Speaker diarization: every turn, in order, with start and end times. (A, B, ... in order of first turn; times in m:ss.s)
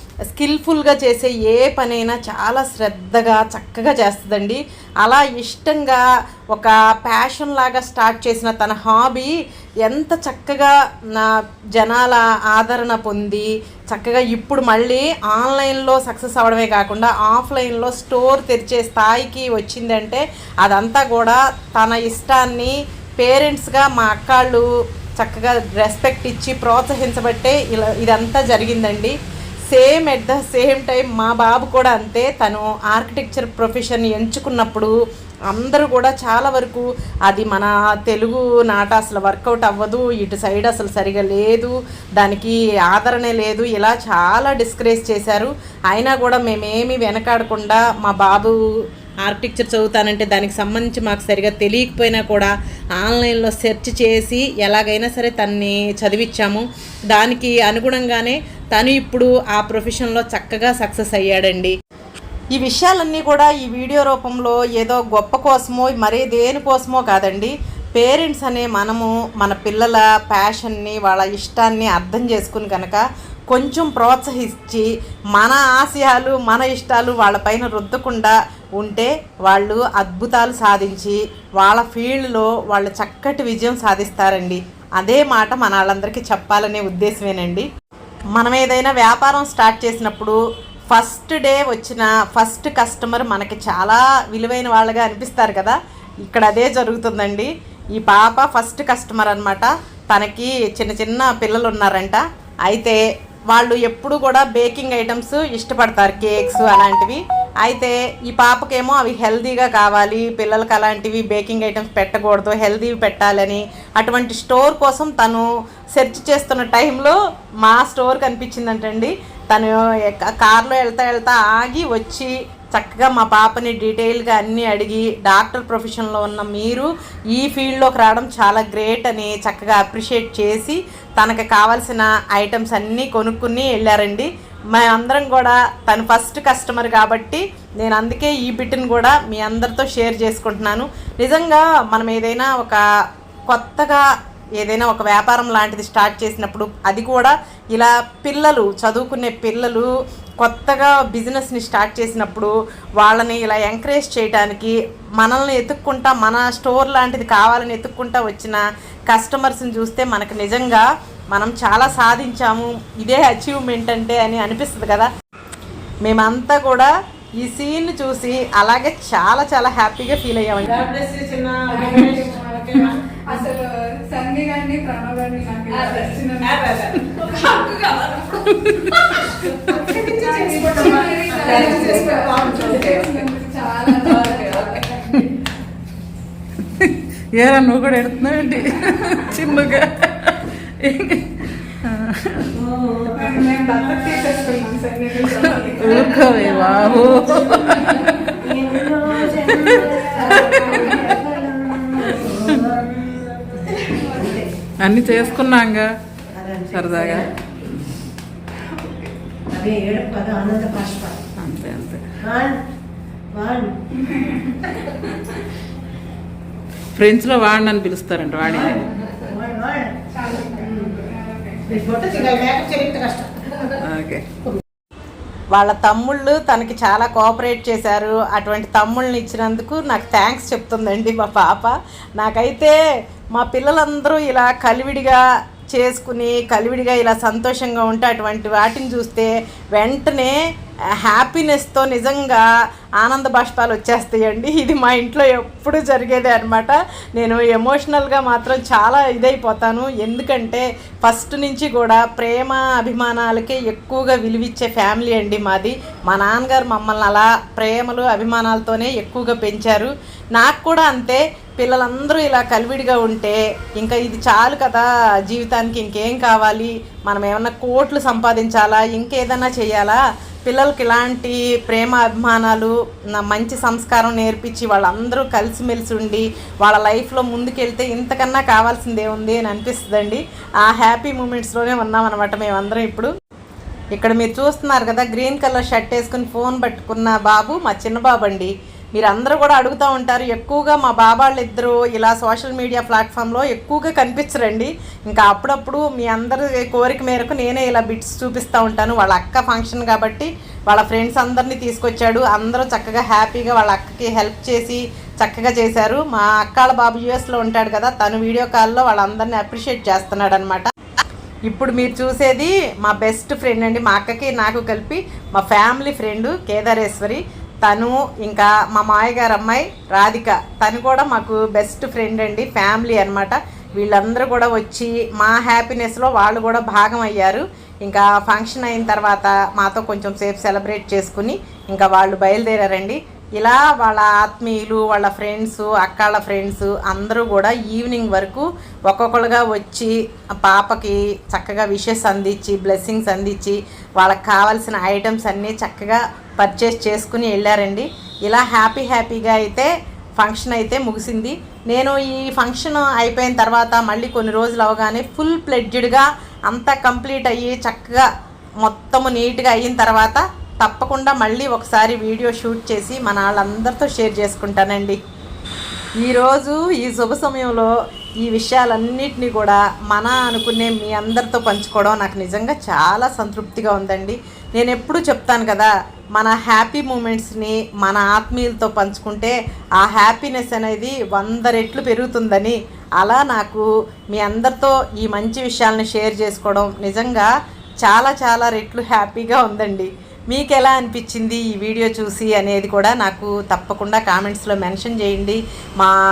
0:00.3-0:09.3 A
0:09.8-0:24.6 A
0:25.2-0:29.2 A
0:29.7-0:34.9 A
0:35.5-0:48.6 A
0:49.2-1:01.7 A
1:02.5-1:27.6 A
1:28.3-1:30.4 A
1:30.9-2:22.8 A
2:23.5-2:24.0 A
2:24.6-2:45.1 A
2:46.0-2:53.3 A
2:51.7-2:56.6 B
2:55.8-2:58.4 A
2:58.3-2:59.9 C
2:59.6-3:05.3 B
2:59.9-3:00.2 A
3:01.3-3:01.8 C
3:01.5-3:02.7 A
3:02.8-3:03.3 C
3:03.9-3:05.3 C
3:06.6-3:12.7 C
3:13.1-3:16.1 B
3:15.3-3:22.8 C
3:20.2-3:21.2 B
3:24.8-3:25.9 C
3:26.4-3:27.8 C
3:31.2-3:32.4 C
3:36.9-3:38.9 C
3:40.1-3:42.4 B
3:42.7-3:43.0 A
3:43.7-3:44.5 C
3:45.5-3:52.8 A
3:53.3-3:55.2 A
3:55.7-4:00.4 A
4:01.0-4:02.4 A
4:03.0-4:43.1 A
4:43.9-5:10.7 A
5:11.5-5:58.0 A
5:58.6-6:05.0 A
6:06.0-6:27.3 A
6:27.8-6:36.0 A